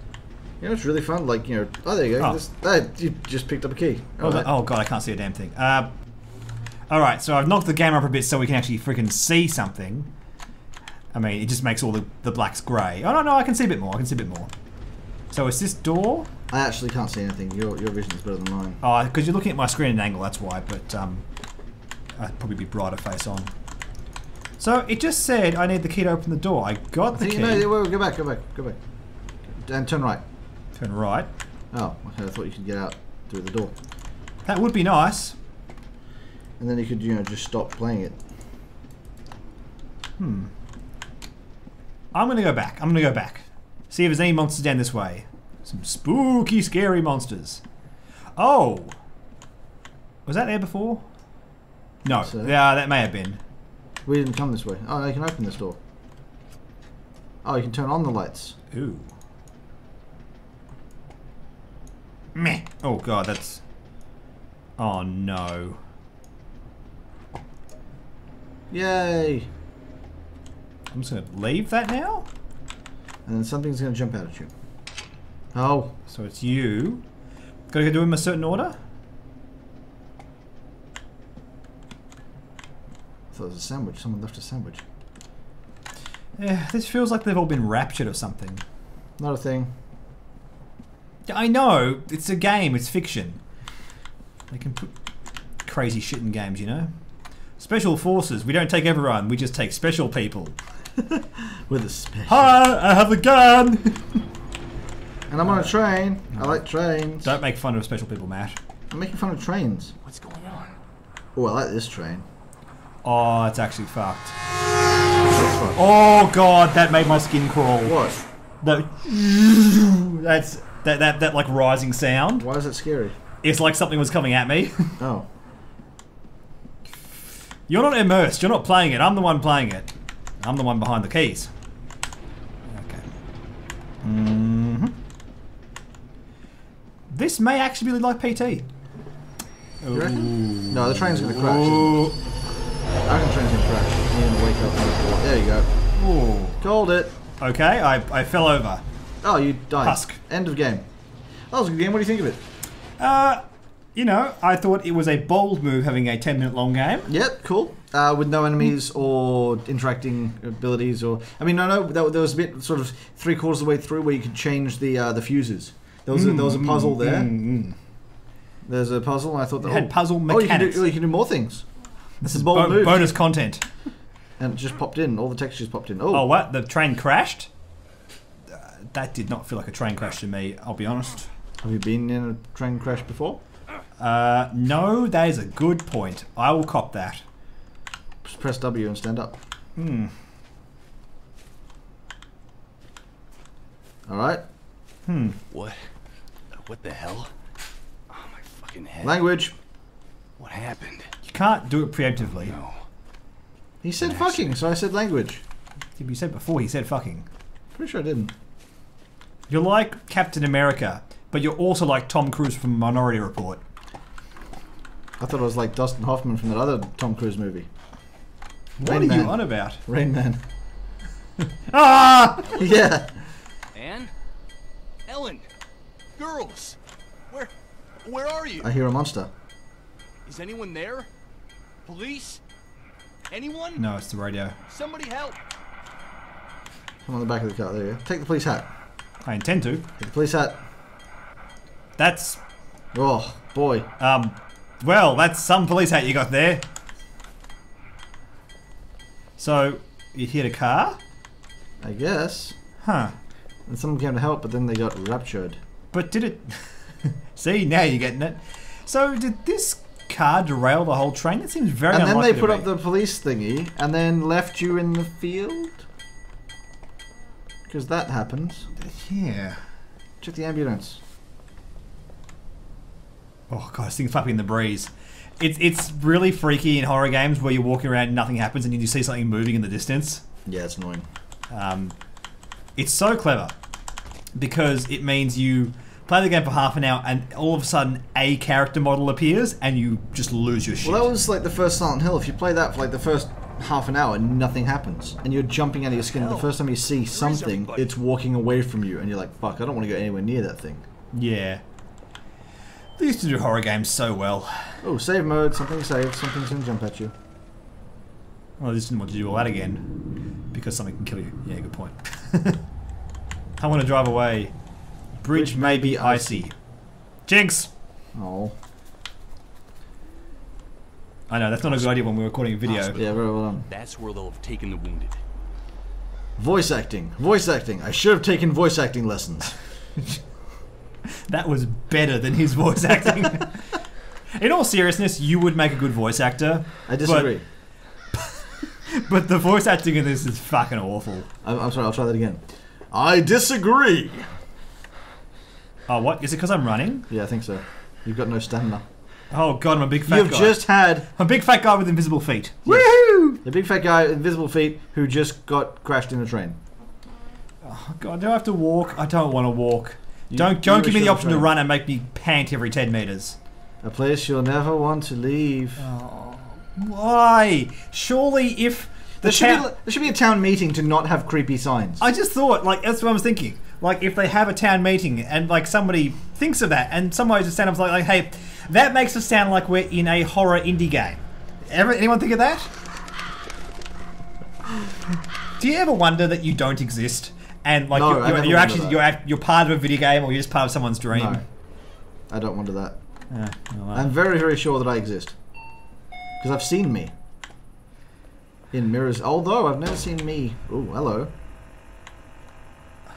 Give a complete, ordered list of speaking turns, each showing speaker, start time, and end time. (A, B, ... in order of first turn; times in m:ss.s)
0:00.6-0:04.5 A
0:04.2-0:05.9 B
0:06.9-0:10.1 B
0:11.1-0:14.5 B
0:15.3-0:16.3 B
0:16.5-0:18.8 A
0:18.8-0:21.2 B
0:22.2-0:23.5 B
0:24.6-0:27.7 B
0:27.1-0:28.8 A
0:29.5-0:30.2 A
0:30.8-0:31.3 B
0:31.7-0:33.7 A
0:34.5-0:35.4 B
0:36.6-0:38.2 A
0:40.2-0:40.5 B
0:42.1-0:47.6 B
0:48.4-0:49.0 B
0:50.3-0:51.0 B
0:52.0-0:53.4 B
0:52.1-0:52.6 A
0:54.0-0:55.8 A
0:57.4-0:58.6 A
0:58.7-0:59.1 B
1:02.4-1:03.6 B
1:04.8-1:05.8 B
1:08.7-1:09.5 A
1:10.9-1:12.3 B
1:13.2-1:14.5 A
1:15.5-1:16.0 A
1:16.1-1:17.0 B
1:17.7-1:18.8 B
1:23.3-1:24.8 A
1:26.4-1:28.6 B
1:29.2-1:29.7 A
1:31.3-1:33.4 B
1:34.5-1:34.9 B
1:35.6-1:36.9 B
1:37.6-1:40.6 B
1:41.0-1:42.6 A
1:42.3-1:44.2 B
1:45.3-1:47.3 A
1:45.5-1:45.7 B
1:46.3-1:46.6 B
1:47.2-1:48.6 B
1:48.9-1:49.9 A
1:50.0-1:50.8 C
1:51.4-1:52.3 A
1:53.0-1:54.4 B
1:55.3-1:55.8 A
1:55.8-1:58.0 B
1:57.8-1:58.2 A
1:58.6-2:02.5 B
2:02.4-2:03.2 A
2:03.4-2:05.0 B
2:05.0-2:05.3 A
2:07.7-2:09.9 B
2:10.4-2:11.5 B
2:12.7-2:13.1 B
2:14.0-2:15.0 B
2:17.1-2:18.7 B
2:19.8-2:22.2 B
2:19.9-2:22.1 A
2:23.0-2:25.7 A
2:26.0-2:26.6 B
2:26.6-2:27.1 A
2:27.4-2:28.8 B
2:29.2-2:30.9 A
2:29.8-2:30.2 B
2:31.5-2:32.4 A
2:33.0-2:33.4 B
2:34.0-2:37.1 B
2:37.1-2:47.3 A
2:46.1-2:47.8 B
2:48.6-2:51.6 A
2:49.6-2:50.9 B
2:52.2-2:53.6 B
2:52.3-2:53.2 A
2:54.4-2:56.3 A
2:56.1-2:57.5 B
2:58.5-3:01.3 B
3:01.6-3:03.4 A
3:04.0-3:07.2 B
3:08.2-3:09.4 A
3:09.8-3:10.1 B
3:14.1-3:14.4 A
3:15.1-3:15.4 B
3:15.5-3:15.9 C
3:16.5-3:17.3 C
3:18.1-3:19.2 C
3:19.0-3:19.6 A
3:20.4-3:21.1 C
3:21.2-3:22.6 B
3:22.3-3:22.8 C
3:23.8-3:25.4 A
3:24.0-3:24.6 C
3:26.0-3:27.3 B
3:27.8-3:28.3 A
3:29.5-3:33.6 B
3:35.2-3:37.7 A
3:38.8-3:39.8 B
3:38.8-3:40.4 A
3:41.4-3:42.5 B
3:42.4-3:43.0 C
3:42.5-3:43.3 A
3:43.7-3:44.1 C
3:45.1-3:45.4 C
3:46.2-3:46.8 C
3:48.0-3:48.7 C
3:48.6-3:49.3 A
3:50.3-3:51.1 C
3:51.9-3:52.4 C
3:53.3-3:53.8 C
3:53.8-3:54.6 B
3:54.7-3:55.4 C
3:57.0-3:58.7 A
3:59.2-3:59.9 B
4:00.0-4:00.6 A
4:02.0-4:02.4 B
4:02.9-4:03.9 A
4:04.0-4:06.6 B
4:09.4-4:11.0 B
4:11.8-4:12.6 A
4:12.8-4:13.1 B
4:13.7-4:15.6 A
4:15.9-4:22.7 B
4:21.9-4:25.9 A
4:27.7-4:28.7 A
4:28.8-4:29.6 B
4:30.2-4:31.0 A
4:33.5-4:40.2 B
4:40.5-4:41.1 A
4:41.5-4:42.0 B
4:42.8-4:43.6 B
4:44.4-4:51.1 B
4:50.8-5:00.8 A
4:56.1-4:57.9 C
5:01.1-5:01.6 B
5:03.0-5:04.8 B
5:04.8-5:07.1 A
5:08.6-5:09.9 B
5:10.5-5:12.6 B
5:13.6-5:14.5 B
5:15.2-5:16.6 B
5:15.3-5:16.5 A
5:17.3-5:17.7 B
5:18.1-5:18.6 A
5:21.3-5:23.0 B
5:21.7-5:22.0 C
5:22.7-5:25.2 C
5:23.0-5:23.7 A
5:26.4-5:29.6 A
5:31.3-5:33.6 B
5:34.3-5:37.3 B
5:36.9-5:37.4 A
5:38.1-5:41.3 B
5:41.4-5:44.3 A
5:45.9-5:47.1 B
5:47.1-5:48.9 A
5:49.3-5:53.4 B
5:50.1-5:51.1 A
5:52.7-5:56.6 A
5:57.6-6:03.4 B
6:00.3-6:01.5 A
6:03.8-6:05.8 A
6:05.8-6:09.7 B
6:09.2-6:12.0 A
6:12.0-6:22.7 B
6:25.6-6:31.4 B
6:27.9-6:29.0 A
6:31.1-6:31.4 A
6:32.3-6:33.0 A
6:33.3-6:34.1 B
6:33.9-6:35.4 A
6:36.4-6:37.1 A
6:38.7-6:41.3 A